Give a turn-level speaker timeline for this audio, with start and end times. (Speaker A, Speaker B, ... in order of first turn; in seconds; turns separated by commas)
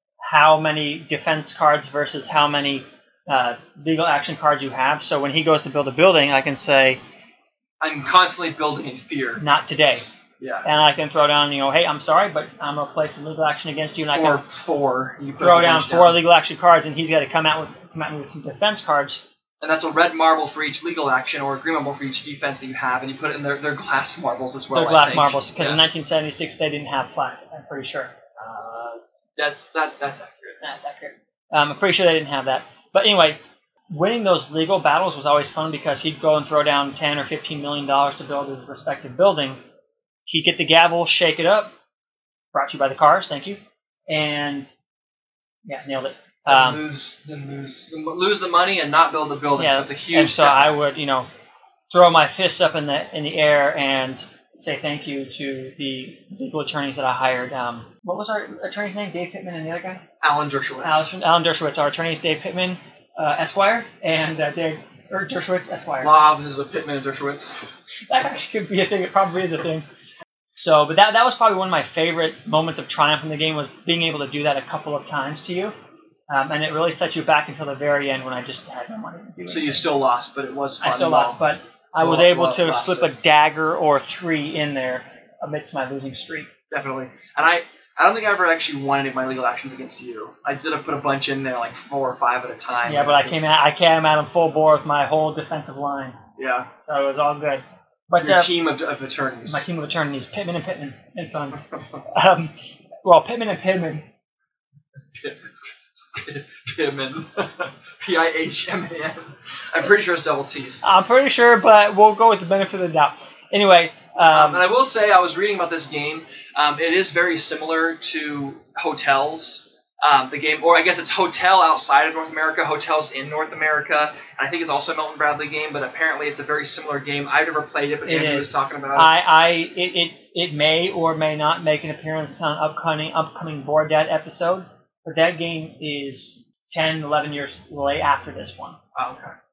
Speaker A: 0.2-7.0, Speaker B: 7.8-9.4, Speaker A: 9.4-10.0, Speaker B: 10.4-10.7, Speaker A: 10.6-14.4, Speaker B: 14.1-16.2, Speaker A: 15.4-19.2, Speaker B: 19.6-25.8, Speaker A: 24.7-28.1, Speaker B: 28.4-30.6, Speaker A: 30.6-39.6, Speaker A: 40.3-41.7, Speaker A: 42.5-44.7, Speaker A: 45.6-46.8, Speaker B: 46.5-50.8, Speaker A: 49.5-51.3, Speaker A: 51.9-60.0, Speaker B: 60.2-61.1, Speaker A: 60.8-66.2, Speaker B: 66.0-67.6, Speaker A: 68.1-69.8, Speaker A: 70.5-75.7, Speaker A: 76.3-79.8, Speaker B: 79.5-81.4, Speaker A: 80.8-86.5, Speaker B: 82.0-83.1, Speaker B: 86.7-93.4, Speaker A: 92.8-96.2, Speaker B: 96.4-96.7, Speaker A: 96.8-98.5, Speaker B: 98.2-99.7, Speaker A: 99.5-102.5, Speaker A: 103.0-104.0, Speaker B: 105.1-105.5, Speaker B: 106.1-110.8, Speaker A: 110.8-114.7, Speaker B: 114.3-129.1, Speaker A: 128.1-138.8, Speaker B: 138.9-139.3